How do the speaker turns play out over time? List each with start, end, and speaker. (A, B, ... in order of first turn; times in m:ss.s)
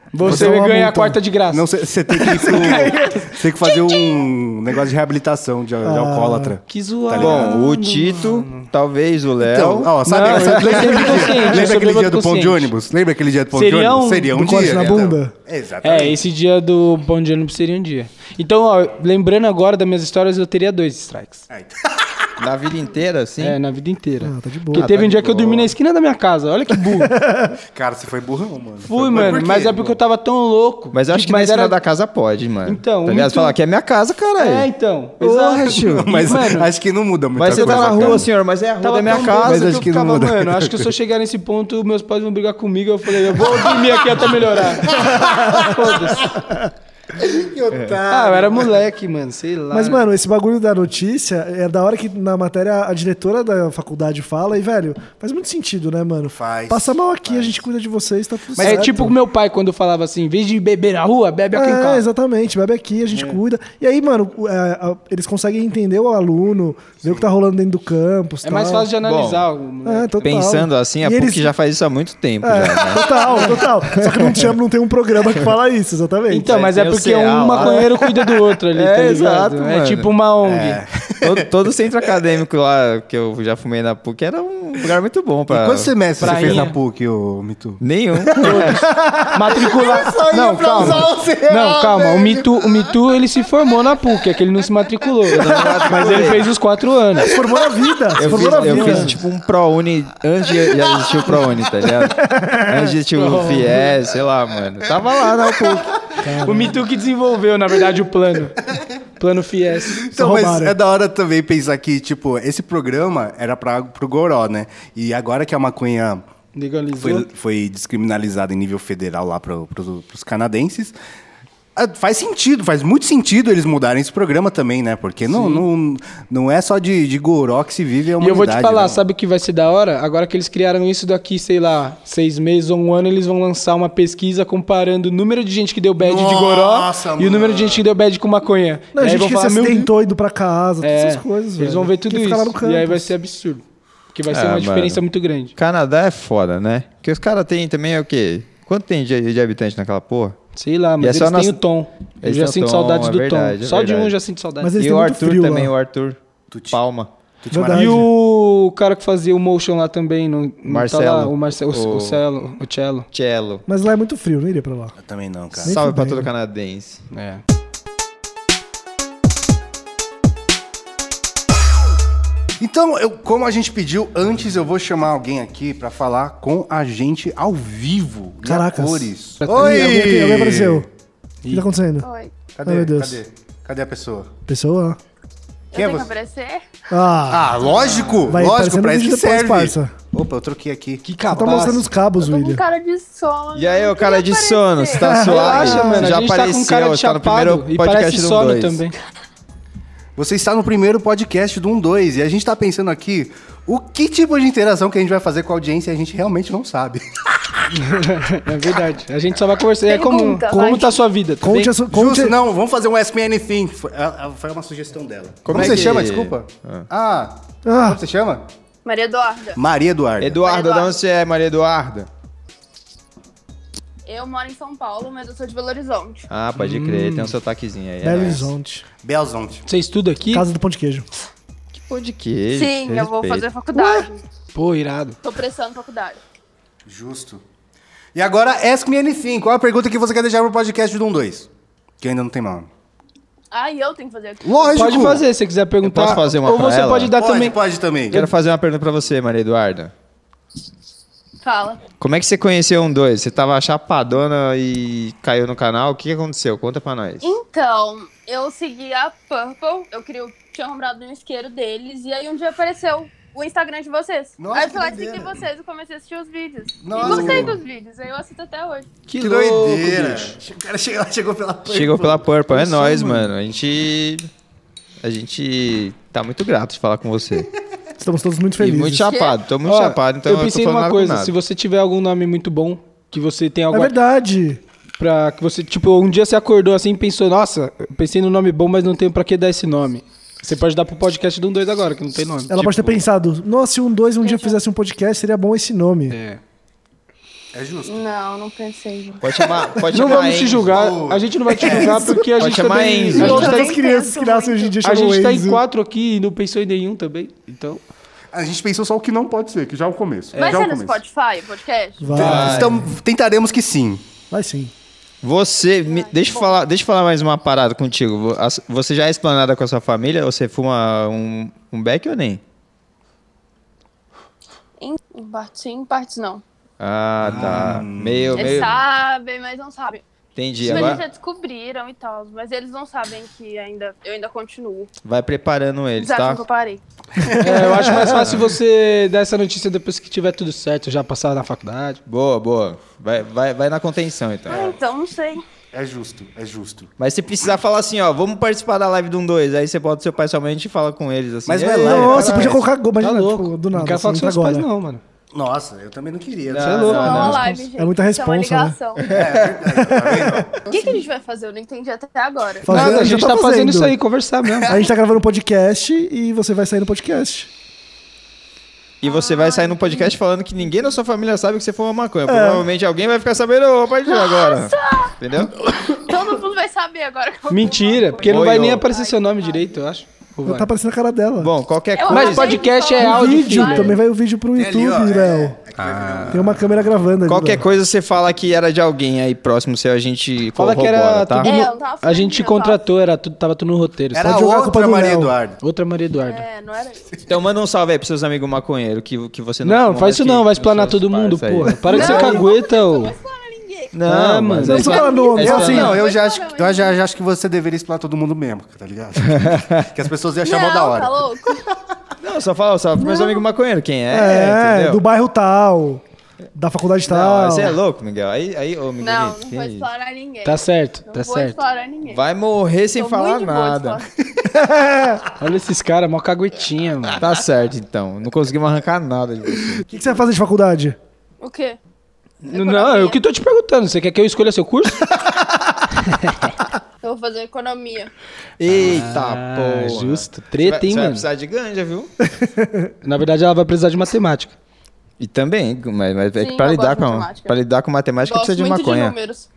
0:00.1-0:03.2 A
0:00.2-0:01.2 B
0:00.2-0:00.5 C
0:01.5-0:07.6 C
0:02.5-0:03.3 B
0:03.7-0:04.2 D
0:05.8-0:06.6 B
0:06.7-0:08.7 A
0:07.2-0:11.0 E
0:09.4-0:16.2 C
0:10.0-0:12.7 A
0:13.5-0:14.3 A
0:14.3-0:15.4 B
0:15.8-0:21.5 A
0:21.5-0:22.3 C
0:22.4-0:23.6 E
0:23.4-0:27.2 A
0:24.2-0:24.9 B
0:24.7-0:25.7 E
0:27.0-0:27.6 B
0:27.7-0:29.8 C
0:28.8-0:31.8 A
0:30.9-0:34.7 E
0:32.7-0:33.6 A
0:34.4-0:36.7 A
0:35.2-0:36.4 E
0:35.7-0:38.3 C
0:37.4-0:39.9 E
0:37.5-0:38.3 A
0:38.8-0:46.3 A
0:39.0-0:40.9 C
0:43.3-0:46.5 C
0:44.9-0:46.7 B
0:47.1-0:48.8 C
0:47.7-0:48.0 E
0:48.1-0:50.1 A
0:49.7-0:59.1 B
0:56.3-0:57.6 C
0:58.5-0:59.1 C
0:58.6-1:02.1 A
1:01.5-1:08.9 B
1:08.4-1:10.4 A
1:09.0-1:09.5 E
1:09.8-1:11.5 B
1:10.2-1:14.5 E
1:12.4-1:16.6 B
1:16.3-1:20.8 A
1:16.5-1:18.0 E
1:18.7-1:20.1 E
1:20.4-1:21.5 C
1:21.2-1:26.6 E
1:25.5-1:32.9 C
1:26.2-1:26.8 A
1:27.8-1:28.8 E
1:28.4-1:37.3 A
1:35.3-1:36.5 E
1:35.6-1:35.8 B
1:37.2-1:39.2 B
1:38.2-1:46.0 E
1:38.3-1:39.2 A
1:40.8-1:41.1 C
1:42.0-1:42.9 B
1:43.1-1:43.9 A
1:45.6-1:46.0 C
1:46.2-1:46.8 B
1:46.4-1:48.6 A
1:48.7-1:49.0 C
1:49.2-1:50.1 A
1:49.9-1:56.2 C
1:50.1-1:50.8 B
1:56.5-1:57.3 A
1:57.0-2:01.0 C
2:01.8-2:09.0 C
2:05.3-2:05.7 A
2:08.2-2:19.9 A
2:16.0-2:17.8 C
2:18.9-2:23.1 B
2:20.8-2:25.5 A
2:24.3-2:25.0 E
2:25.6-2:30.4 E
2:30.6-2:34.8 A
2:31.0-2:31.6 E
2:32.2-2:34.1 E
2:34.6-2:35.7 B
2:34.8-2:36.2 E
2:36.5-2:36.8 C
2:36.7-2:37.1 E
2:37.4-2:38.1 C
2:37.5-2:38.1 B
2:37.7-2:43.1 A
2:40.7-2:42.2 E
2:43.1-2:43.6 E
2:43.7-2:45.0 B
2:45.0-2:45.8 C
2:45.6-2:46.3 B
2:45.6-2:47.0 E
2:47.1-2:47.4 A
2:52.6-3:00.9 C
2:58.4-3:00.9 B
2:59.4-3:00.0 A
3:01.5-3:02.1 B
3:02.0-3:02.3 D
3:02.5-3:04.3 C
3:02.6-3:03.2 B
3:04.5-3:05.0 B
3:05.7-3:06.7 D
3:05.7-3:06.1 C
3:06.9-3:07.6 B
3:07.3-3:11.0 C
3:08.3-3:09.9 B
3:11.0-3:11.9 A
3:11.3-3:12.6 B
3:12.2-3:15.7 D
3:13.6-3:18.8 E
3:15.0-3:16.1 B
3:15.2-3:19.0 A
3:20.2-3:27.6 C
3:27.8-3:31.8 A
3:29.9-3:31.0 D
3:30.5-3:32.4 B
3:31.9-3:38.5 C
3:35.5-3:36.9 E
3:37.6-3:38.0 B
3:38.8-3:39.6 D
3:39.6-3:40.4 C
3:40.2-3:42.1 E
3:40.4-3:41.0 D
3:44.1-3:46.3 D
3:46.3-3:48.5 E
3:46.6-3:47.3 A
3:48.0-3:48.9 B
3:49.0-3:49.6 C
3:49.7-3:50.5 A
3:50.3-3:51.1 B
3:51.7-3:53.5 E
3:52.5-3:54.2 D
3:54.5-3:55.2 A
3:55.2-3:56.2 D
3:56.9-3:57.4 C
3:58.2-4:01.5 C
4:02.0-4:02.7 C
4:03.5-4:05.1 D
4:04.4-4:05.2 C
4:04.8-4:07.6 A
4:05.8-4:07.2 E
4:07.2-4:08.2 C
4:08.1-4:09.9 E
4:11.4-4:11.8 D
4:12.0-4:17.3 E
4:17.2-4:28.9 D
4:24.4-4:25.4 C
4:26.8-4:27.6 C
4:27.0-4:27.5 A
4:29.1-4:30.4 A
4:29.2-4:33.3 C
4:31.7-4:34.3 E
4:35.0-4:37.5 E
4:38.0-4:39.1 B
4:38.6-4:41.3 E
4:39.1-4:39.4 D
4:39.6-4:44.0 A
4:43.7-4:44.6 B
4:45.0-4:52.5 A
4:52.5-4:56.2 B
4:52.6-4:53.0 E
4:54.2-4:54.6 D
4:56.1-4:56.4 A
4:57.5-4:58.1 C
4:57.9-4:59.6 D
4:59.2-5:00.9 E
4:59.9-5:03.6 A
5:00.0-5:02.2 C
5:01.6-5:02.3 B
5:02.4-5:03.7 E
5:03.2-5:04.8 D
5:03.2-5:05.6 B
5:04.8-5:07.8 A
5:08.3-5:11.0 C
5:10.4-5:12.3 D
5:12.0-5:12.9 B
5:12.1-5:14.0 C
5:12.2-5:12.8 E
5:12.2-5:12.6 A
5:14.3-5:14.7 B
5:15.2-5:22.4 E
5:15.9-5:16.6 D
5:24.8-5:26.4 D
5:26.8-5:28.8 E
5:27.2-5:28.6 C
5:28.4-5:30.0 D
5:30.4-5:31.0 E
5:30.6-5:34.9 D
5:30.6-5:31.0 A
5:35.0-5:36.4 E
5:36.0-5:36.8 D
5:37.2-5:38.3 C
5:37.4-5:42.0 A
5:37.9-5:38.5 E
5:42.1-5:44.8 E
5:44.5-5:45.4 D
5:45.7-5:46.9 C
5:47.0-5:52.6 E
5:51.5-5:52.7 C
5:51.8-5:54.7 B
5:52.1-5:52.5 A
5:53.0-5:55.0 A
5:55.3-5:57.4 C
5:56.5-5:57.5 E
5:56.6-5:57.4 A
5:56.8-5:59.1 D
5:57.4-5:58.8 B
5:59.0-5:59.6 E
5:59.1-6:01.0 C
5:59.7-6:00.5 B
6:00.6-6:03.0 D
6:02.6-6:04.0 B
6:02.7-6:04.8 A
6:04.6-6:07.5 B
6:09.0-6:15.6 E
6:09.0-6:10.1 D
6:12.3-6:12.7 B
6:14.1-6:15.2 D
6:15.8-6:19.7 D
6:17.5-6:20.7 A
6:18.2-6:18.9 E
6:20.4-6:21.5 B
6:21.4-6:22.6 E
6:22.0-6:24.0 D
6:22.1-6:23.9 A
6:23.0-6:25.6 B
6:24.6-6:27.0 C
6:25.8-6:26.4 A
6:26.3-6:27.7 B
6:27.3-6:31.6 E
6:30.6-6:34.4 A
6:31.4-6:32.8 D
6:34.1-6:35.6 C
6:34.2-6:35.4 B
6:35.6-6:36.4 A
6:36.2-6:37.2 D
6:37.3-6:42.4 E
6:39.6-6:43.2 A
6:41.9-6:44.0 D
6:43.9-6:46.0 E
6:44.1-6:45.0 A
6:44.6-6:46.0 B
6:44.7-6:47.0 D
6:45.5-6:51.8 C
6:49.4-6:49.8 E
6:50.4-6:51.6 D
6:52.2-6:55.0 E
6:53.0-6:53.4 D
6:54.1-6:56.0 B
6:56.6-6:57.8 B
6:57.1-6:59.9 E
6:59.0-7:02.2 D
7:00.4-7:01.6 A
7:02.1-7:04.0 E
7:03.0-7:04.1 D
7:04.5-7:05.2 B
7:05.4-7:07.2 A
7:07.2-7:09.9 E
7:09.9-7:11.0 B
7:11.4-7:11.8 D
7:12.5-7:13.2 D
7:12.5-7:15.1 A
7:15.9-7:16.6 A
7:17.0-7:18.1 D
7:18.6-7:21.3 A
7:18.6-7:22.1 E
7:22.4-7:22.9 B
7:23.0-7:24.6 A
7:25.2-7:29.2 E
7:26.4-7:27.6 D
7:28.2-7:29.5 D